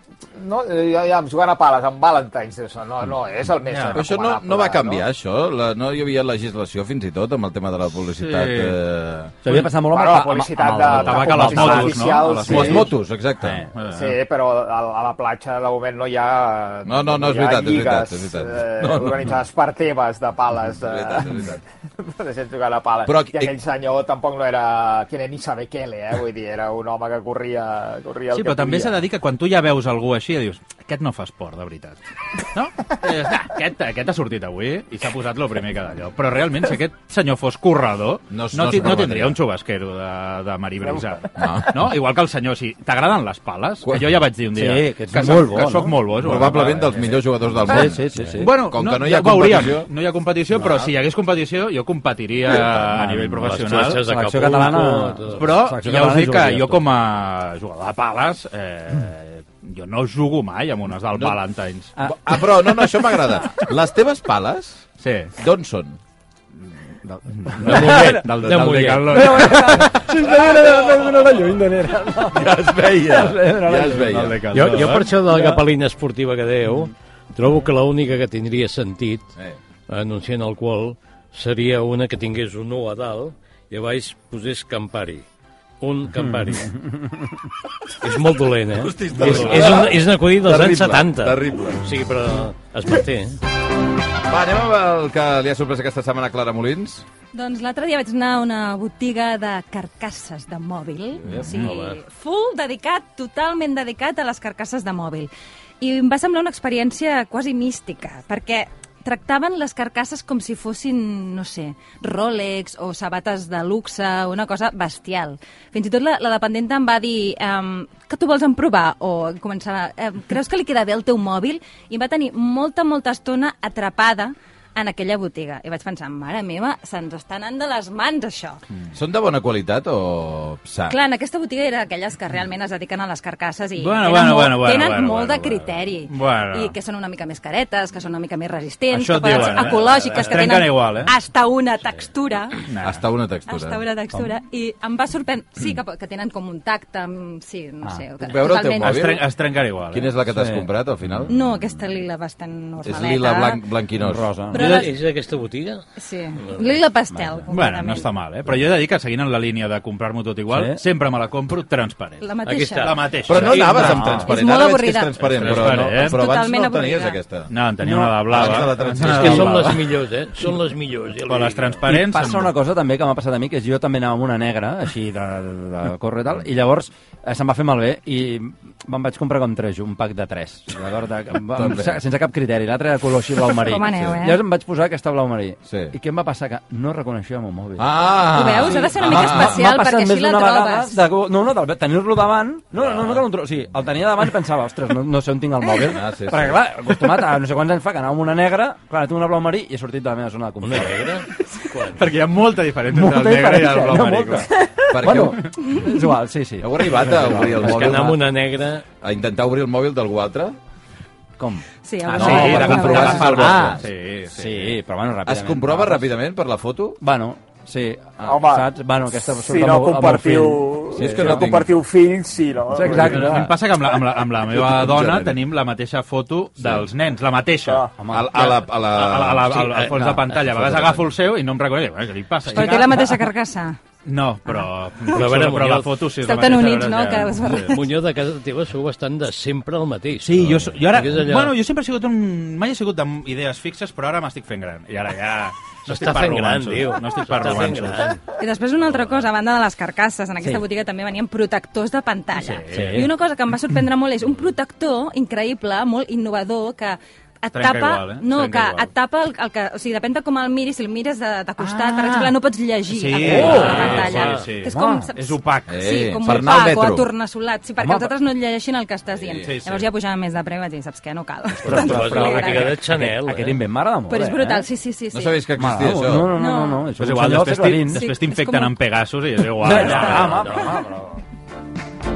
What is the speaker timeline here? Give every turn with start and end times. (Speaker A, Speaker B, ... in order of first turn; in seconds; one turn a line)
Speaker A: 0.3-5.0
Speaker B: 3.7-4.0
Speaker C: 3.9-9.3
Speaker B: 8.1-8.8
Speaker D: 9.4-12.8
Speaker A: 9.8-12.9
Speaker B: 10.8-12.8
Speaker C: 12.5-13.6
Speaker B: 13.6-14.2
Speaker A: 13.9-29.0
Speaker C: 16.8-19.3
Speaker C: 20.8-21.6
Speaker C: 23.0-23.5
Speaker B: 28.3-32.0
Speaker B: 32.5-47.2
Speaker C: 38.3-39.4
Speaker C: 41.4-41.9
Speaker C: 43.8-44.1
Speaker D: 44.5-46.7
Speaker C: 46.2-49.9
Speaker D: 47.6-48.5
Speaker B: 48.4-54.0
Speaker D: 52.9-56.8
Speaker E: 53.4-55.5
Speaker B: 55.3-61.9
Speaker C: 61.1-61.4
Speaker C: 62.0-66.0
Speaker B: 65.0-65.3
Speaker B: 67.0-70.0
Speaker D: 67.6-68.3
Speaker E: 67.6-69.5
Speaker D: 69.1-74.3
Speaker C: 70.4-71.0
Speaker C: 72.3-74.4
Speaker B: 74.1-75.1
Speaker E: 74.5-79.3
Speaker D: 75.2-75.6
Speaker E: 79.9-85.2
Speaker E: 85.8-86.7
Speaker D: 86.2-87.2
Speaker E: 88.0-93.4
Speaker C: 88.7-91.9
Speaker C: 94.2-97.0
Speaker F: 97.3-105.3
Speaker C: 101.2-101.5
Speaker E: 101.5-102.0
Speaker F: 105.8-128.6
Speaker C: 128.9-131.0
Speaker F: 130.9-142.7
Speaker B: 133.8-136.7
Speaker B: 138.9-141.1
Speaker E: 139.3-140.4
Speaker B: 142.7-143.0
Speaker C: 142.8-143.8
Speaker F: 143.5-149.2
Speaker C: 148.2-149.2
Speaker B: 148.8-150.1
Speaker C: 149.9-151.3
Speaker D: 150.3-150.7
Speaker F: 151.3-153.6
Speaker C: 152.8-154.3
Speaker D: 154.0-154.8
Speaker F: 154.5-154.9
Speaker E: 154.5-155.8
Speaker F: 156.0-158.1
Speaker E: 156.4-156.8
Speaker D: 157.1-157.5
Speaker B: 157.5-162.3
Speaker D: 160.5-160.8
Speaker F: 162.2-167.2
Speaker E: 162.4-163.4
Speaker B: 162.8-164.2
Speaker C: 163.2-167.5
Speaker D: 163.8-164.2
Speaker B: 165.2-166.2
Speaker B: 167.5-169.9
Speaker D: 167.8-168.6
Speaker C: 168.3-169.7
Speaker E: 169.0-171.8
Speaker B: 171.2-172.5
Speaker D: 171.8-201.1
Speaker C: 181.5-182.0
Speaker F: 183.5-184.4
Speaker C: 185.7-185.9
Speaker C: 187.8-189.6
Speaker F: 188.2-191.0
Speaker C: 195.8-196.6
Speaker E: 200.6-202.1
Speaker B: 201.9-204.5
Speaker D: 202.9-208.2
Speaker C: 204.9-205.5
Speaker F: 205.7-206.1
Speaker C: 206.6-208.1
Speaker E: 207.5-208.8
Speaker C: 209.0-210.6
Speaker D: 211.4-216.1
Speaker F: 211.8-213.4
Speaker B: 212.1-214.7
Speaker C: 212.2-213.8
Speaker C: 215.2-217.0
Speaker D: 217.0-221.6
Speaker A: 218.2-218.7
Speaker A: 219.3-223.4
Speaker C: 220.9-221.7
Speaker D: 222.7-223.6
Speaker B: 222.9-233.2
Speaker C: 224.4-225.4
Speaker C: 226.6-226.9
Speaker D: 227.9-228.4
Speaker C: 228.1-229.9
Speaker C: 230.5-231.0
Speaker F: 232.4-233.8
Speaker B: 234.0-237.7
Speaker F: 234.4-235.1
Speaker E: 235.1-236.0
Speaker F: 236.2-237.8
Speaker E: 237.4-241.5
Speaker B: 240.2-248.2
Speaker E: 245.8-248.2
Speaker F: 248.3-272.8
Speaker B: 248.9-249.2
Speaker B: 252.3-253.1
Speaker D: 252.7-253.1
Speaker B: 257.5-258.9
Speaker B: 261.6-262.3
Speaker B: 262.9-266.3
Speaker D: 263.3-263.7
Speaker E: 263.3-264.5
Speaker D: 264.6-265.1
Speaker C: 265.7-267.1
Speaker D: 267.8-268.1
Speaker C: 269.1-269.5
Speaker B: 269.4-269.9
Speaker D: 271.6-274.6
Speaker E: 271.6-273.6
Speaker F: 274.1-275.4
Speaker C: 275.1-276.3
Speaker D: 275.6-278.1
Speaker F: 276.3-276.9
Speaker B: 276.9-280.5
Speaker F: 277.9-278.8
Speaker F: 279.6-280.3
Speaker D: 279.6-281.2
Speaker E: 280.2-280.7